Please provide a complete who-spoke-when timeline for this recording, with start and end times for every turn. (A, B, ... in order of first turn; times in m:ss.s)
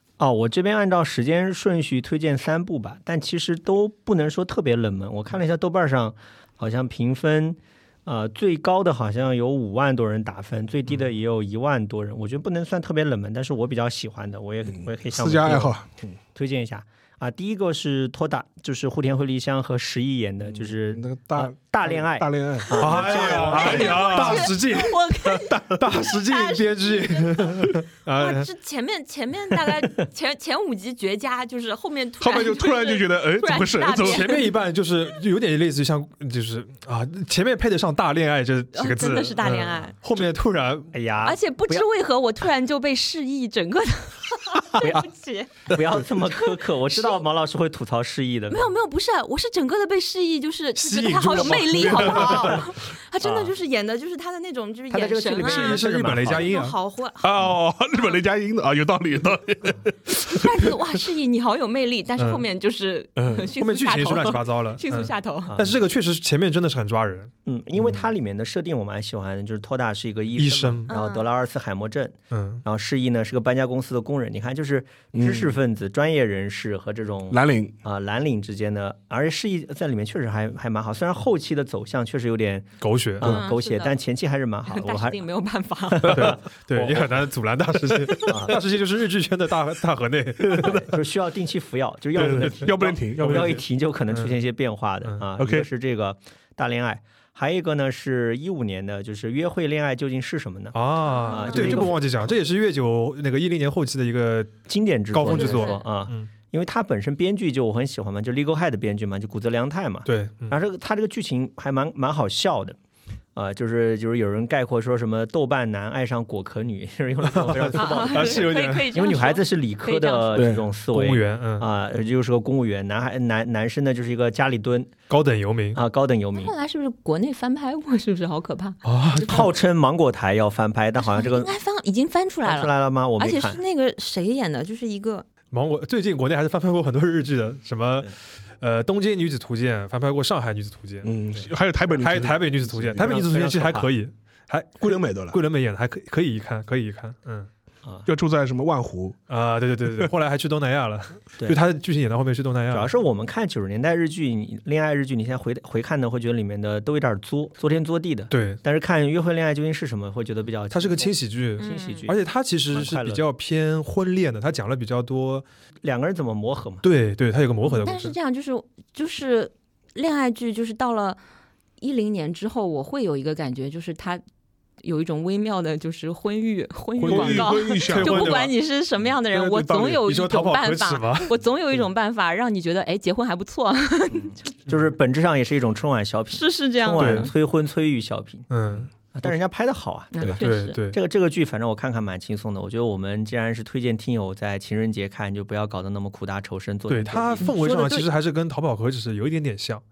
0:00.2-0:15.7 A
0:14.6-0:16.1 B
0:16.3-0:23.9 A
0:20.4-0:24.6 B
0:22.8-0:25.0 C
0:23.0-0:34.5 D
0:25.2-0:26.1 B
0:25.8-0:28.5 C
0:32.2-0:34.4 B
0:33.9-0:40.9 C
0:38.7-0:39.9 D
0:40.9-0:41.8 A
0:41.2-0:45.7 D
0:44.7-0:45.0 A
0:45.7-0:48.7 A
0:46.9-0:47.2 D
0:48.5-0:57.3 D
0:50.8-0:52.7 C
0:51.5-0:52.7 A
0:53.2-0:53.5 A
0:54.9-0:56.5 A
0:55.4-0:56.7 C
0:57.2-1:00.7 B
1:00.2-1:05.6 D
1:02.2-1:02.4 C
1:03.2-1:03.5 B
1:03.6-1:07.3 C
1:05.5-1:05.8 A
1:07.4-1:25.2 A
1:07.8-1:08.0 B
1:10.4-1:10.9 C
1:10.9-1:11.3 D
1:12.3-1:12.6 C
1:15.1-1:15.6 B
1:17.3-1:17.7 B
1:22.8-1:23.4 C
1:23.2-1:24.0 D
1:24.6-1:26.3 D
1:26.0-1:27.1 A
1:26.0-1:30.9 C
1:28.2-1:28.6 A
1:30.4-1:30.9 B
1:30.5-1:42.0 A
1:32.1-1:33.6 B
1:32.1-1:34.4 C
1:35.4-1:35.7 B
1:40.7-1:46.3 C
1:41.0-1:41.9 D
1:44.7-1:52.8 A
1:45.2-1:45.8 D
1:50.0-1:50.6 C
1:53.3-2:04.9 A
1:57.3-1:58.9 C
1:57.7-2:00.5 D
2:00.3-2:00.6 B
2:00.9-2:01.7 C
2:05.1-2:05.8 C
2:05.7-2:06.5 A
2:06.3-2:09.4 D
2:08.8-2:09.5 C
2:09.1-2:11.5 A
2:11.0-2:15.2 D
2:12.4-2:13.6 A
2:15.5-2:27.5 C
2:21.0-2:23.2 B
2:23.0-2:23.9 A
2:24.8-2:25.4 B
2:28.0-2:29.2 B
2:29.3-2:32.9 C
2:32.7-2:43.2 A
2:38.3-2:38.6 C
2:40.7-2:45.4 C
2:41.6-2:42.0 D
2:45.8-2:46.8 A
2:46.8-2:48.1 C
2:47.8-2:51.2 D
2:51.8-2:54.2 D
2:54.8-3:04.4 D
2:57.0-2:58.5 C
2:57.0-2:58.5 B
2:59.3-3:00.0 B
2:59.9-3:01.3 C
3:04.1-3:08.5 A
3:06.3-3:07.3 D
3:07.0-3:07.3 C
3:08.5-3:08.9 C
3:09.1-3:17.5 A
3:10.1-3:10.8 D
3:10.2-3:11.0 C
3:16.9-3:19.8 C
3:17.4-3:18.1 D